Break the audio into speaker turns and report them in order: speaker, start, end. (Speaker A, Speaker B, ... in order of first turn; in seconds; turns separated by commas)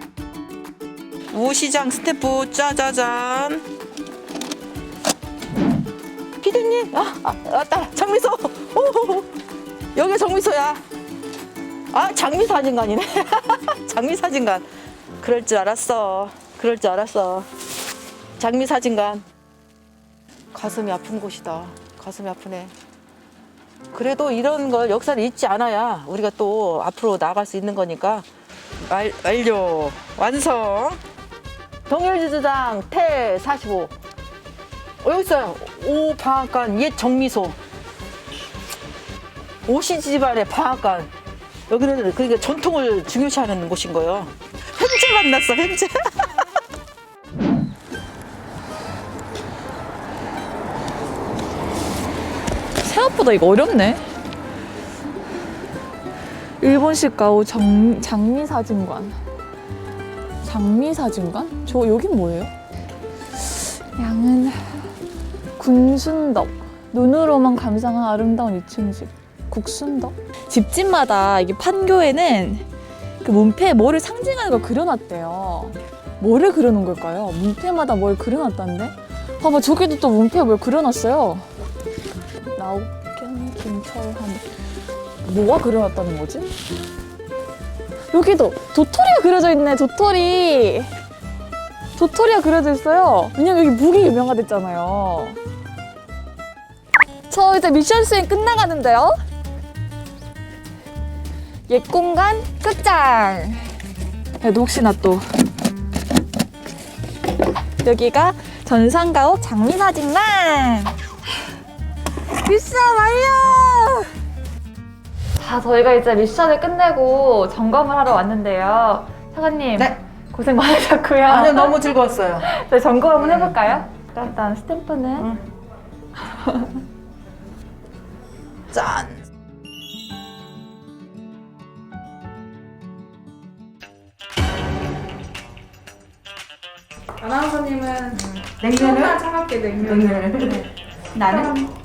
Speaker A: 1.3-3.6, Speaker A: 6.4-9.3, Speaker A: 9.9-10.8, Speaker A: 11.9-14.7, Speaker A: 15.2-17.5, Speaker A: 18.4-19.2, Speaker A: 20.5-22.7, Speaker A: 23.9-28.3, Speaker A: 28.8-31.0, Speaker A: 31.9-33.9, Speaker A: 35.0-37.6, Speaker A: 39.7-41.1, Speaker A: 41.7-46.2, Speaker B: 52.8-54.0, Speaker B: 56.6-59.2, Speaker B: 60.4-62.5, Speaker B: 63.4-64.9, Speaker B: 65.6-72.7, Speaker B: 73.2-81.5, Speaker B: 82.4-84.5, Speaker B: 85.2-86.5, Speaker B: 88.1-90.9, Speaker B: 92.0-95.4, Speaker B: 97.3-99.2, Speaker B: 101.7-103.7, Speaker B: 104.4-105.2, Speaker B: 107.8-111.0, Speaker B: 112.4-114.1, Speaker B: 115.4-121.8, Speaker A: 119.8-120.0, Speaker A: 121.2-122.5, Speaker B: 122.4-125.2, Speaker A: 123.2-123.8, Speaker A: 125.2-125.4, Speaker A: 128.7-129.2, Speaker C: 137.2-138.2, Speaker A: 138.1-141.7, Speaker C: 138.7-140.2